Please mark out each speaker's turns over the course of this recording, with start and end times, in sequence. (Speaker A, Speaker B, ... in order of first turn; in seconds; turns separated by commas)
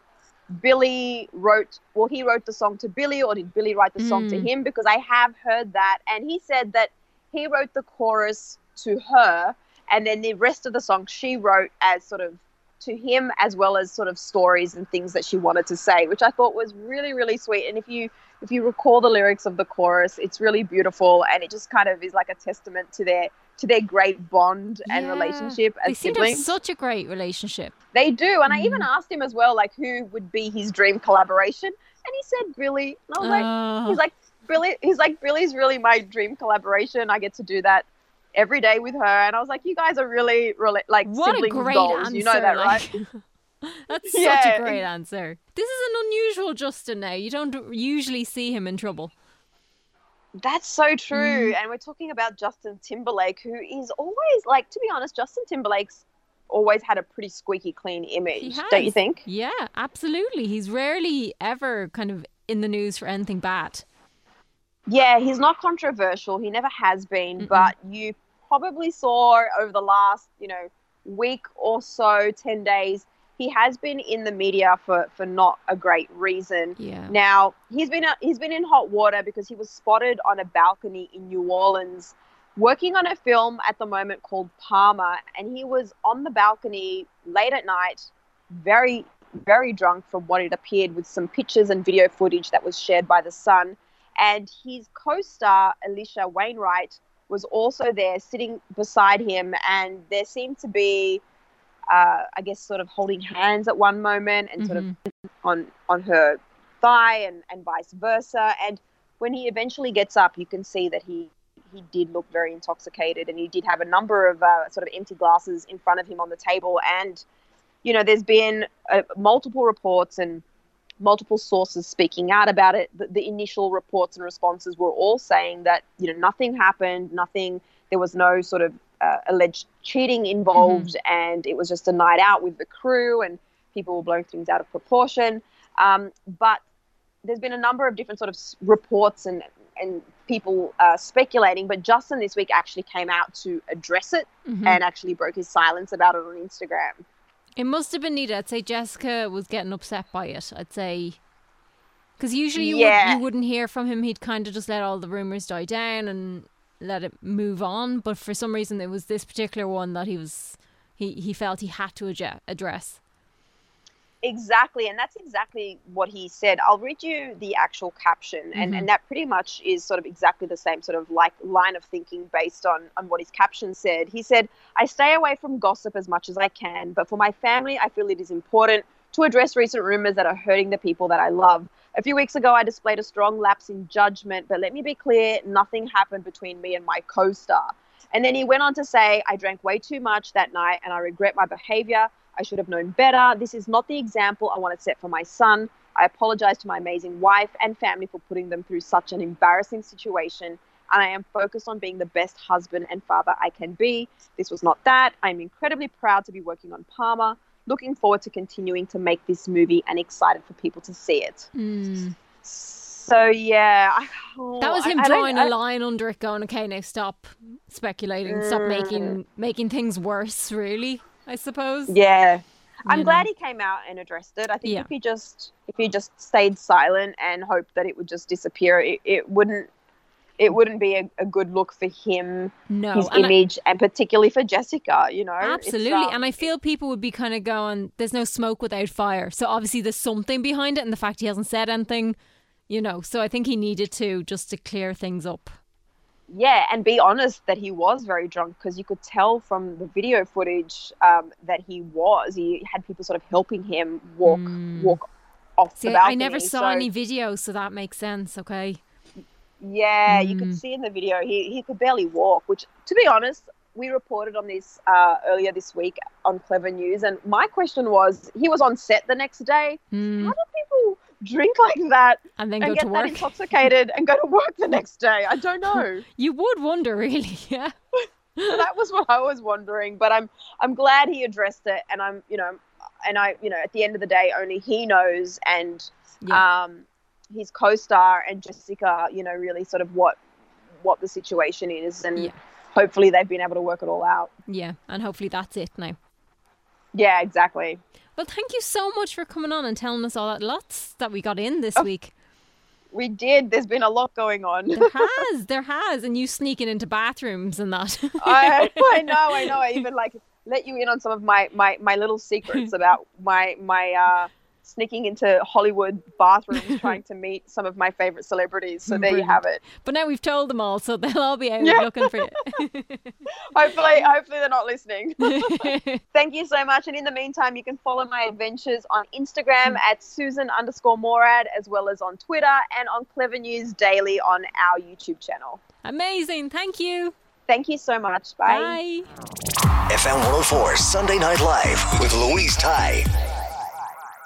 Speaker A: 0.6-26.6, Speaker B: 4.0-4.5, Speaker B: 24.9-27.7, Speaker A: 27.9-42.9, Speaker B: 28.5-28.9, Speaker B: 33.2-34.0, Speaker B: 41.0-49.1, Speaker A: 44.0-44.8, Speaker A: 50.4-59.2, Speaker B: 51.1-51.6, Speaker B: 58.3-63.8, Speaker A: 64.9-101.2, Speaker B: 67.4-67.7, Speaker B: 76.8-77.2, Speaker A: 101.9-117.2, Speaker B: 104.6-104.9, Speaker A: 117.8-120.4, Speaker A: 121.0-136.6, Speaker B: 130.6-130.9, Speaker A: 137.2-147.0, Speaker B: 144.5-144.8, Speaker B: 147.6-151.2, Speaker B: 152.2-163.0, Speaker A: 152.6-153.2, Speaker A: 164.2-211.5, Speaker B: 168.6-168.9, Speaker B: 211.6-212.2, Speaker A: 212.4-215.5, Speaker B: 214.6-222.0, Speaker A: 218.3-219.2, Speaker A: 221.9-229.7, Speaker B: 222.9-223.3, Speaker B: 224.6-224.9, Speaker A: 230.4-236.5, Speaker B: 232.7-233.3, Speaker B: 235.4-242.2, Speaker B: 242.7-245.6, Speaker A: 246.3-255.1, Speaker B: 254.2-255.0, Speaker A: 255.6-256.9, Speaker B: 255.8-258.8, Speaker A: 259.6-276.0, Speaker B: 260.1-260.6, Speaker B: 269.9-270.4, Speaker B: 272.4-273.6, Speaker B: 275.7-277.7, Speaker A: 278.5-290.2, Speaker A: 290.8-294.3, Speaker B: 294.5-296.0, Speaker A: 296.9-297.8, Speaker B: 298.2-302.1, Speaker A: 302.9-305.0, Speaker B: 304.7-309.8, Speaker A: 308.2-319.6, Speaker B: 316.6-317.0, Speaker B: 318.9-323.1, Speaker A: 321.6-322.0, Speaker A: 323.5-335.6, Speaker B: 325.2-326.0, Speaker B: 335.8-337.1, Speaker A: 337.5-338.8, Speaker B: 338.5-339.1, Speaker C: 339.9-343.1